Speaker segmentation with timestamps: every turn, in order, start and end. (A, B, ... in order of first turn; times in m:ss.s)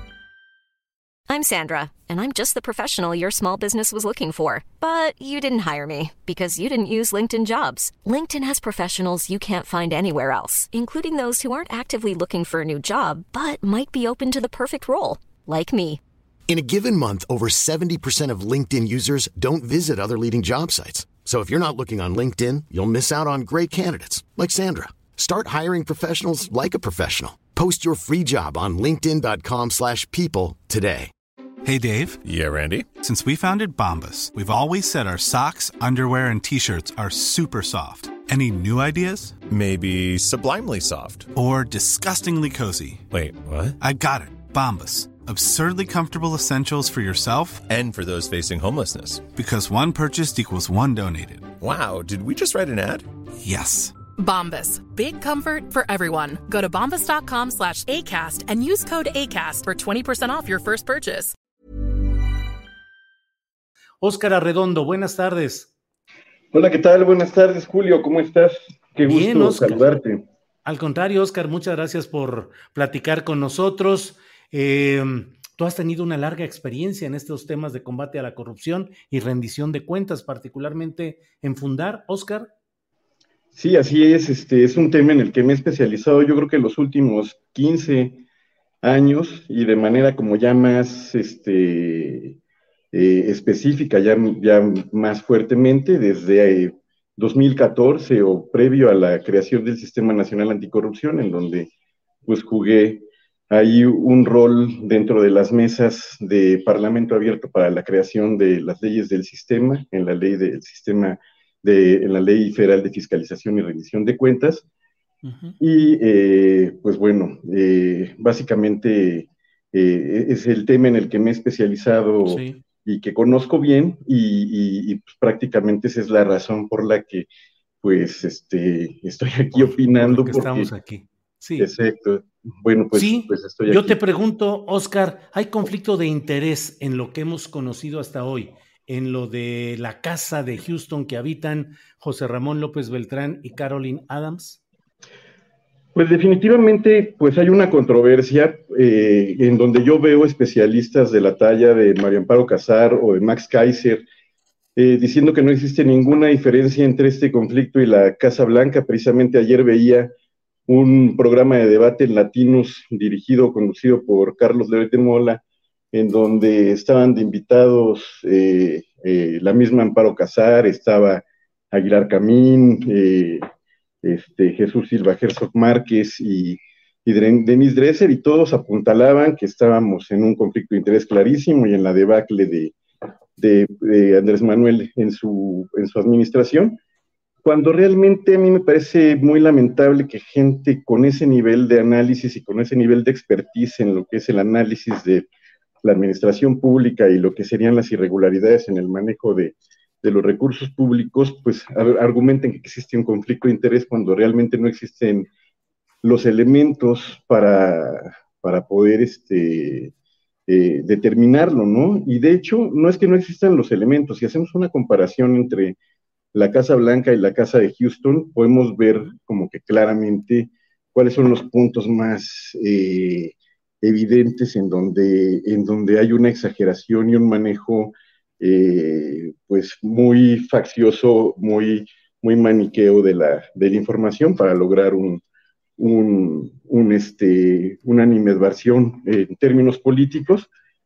0:01.3-0:16.0 A
0:16.5-0:31.1 B
0:31.7-0:32.2 C
0:32.2-0:32.9 D
0:33.0-0:39.4 C
0:39.5-0:41.3 D
0:41.3-0:43.0 C
0:43.1-0:43.8 D
0:43.8-0:47.7 C
0:47.7-0:49.3 D
0:49.3-0:51.4 C
0:51.6-0:53.1 D
0:53.4-0:53.9 C
0:54.2-1:01.3 E
1:04.0-1:05.7 F
1:06.5-1:10.2 G
1:09.0-1:09.9 F
1:10.6-1:22.5 F
1:23.6-1:28.2 G
1:28.8-1:32.4 G
1:32.9-1:41.7 G
1:42.2-1:54.6 G
1:55.2-1:55.5 F
1:55.6-2:07.3 G
2:02.3-2:02.6 F
2:07.8-2:10.7 G
2:09.5-2:11.7 F
2:11.6-2:14.0 G
2:12.9-2:24.6 F
2:26.0-2:34.0 G
2:34.8-2:40.1 G
2:40.7-2:45.4 G
2:45.9-2:53.4 G
2:54.0-3:02.7 G
3:03.4-3:06.8 G
3:07.4-3:15.3 G
3:15.8-3:25.3 G
3:26.0-3:29.9 G
3:30.5-3:35.8 G
3:36.3-3:55.2 G
3:55.8-4:00.5 G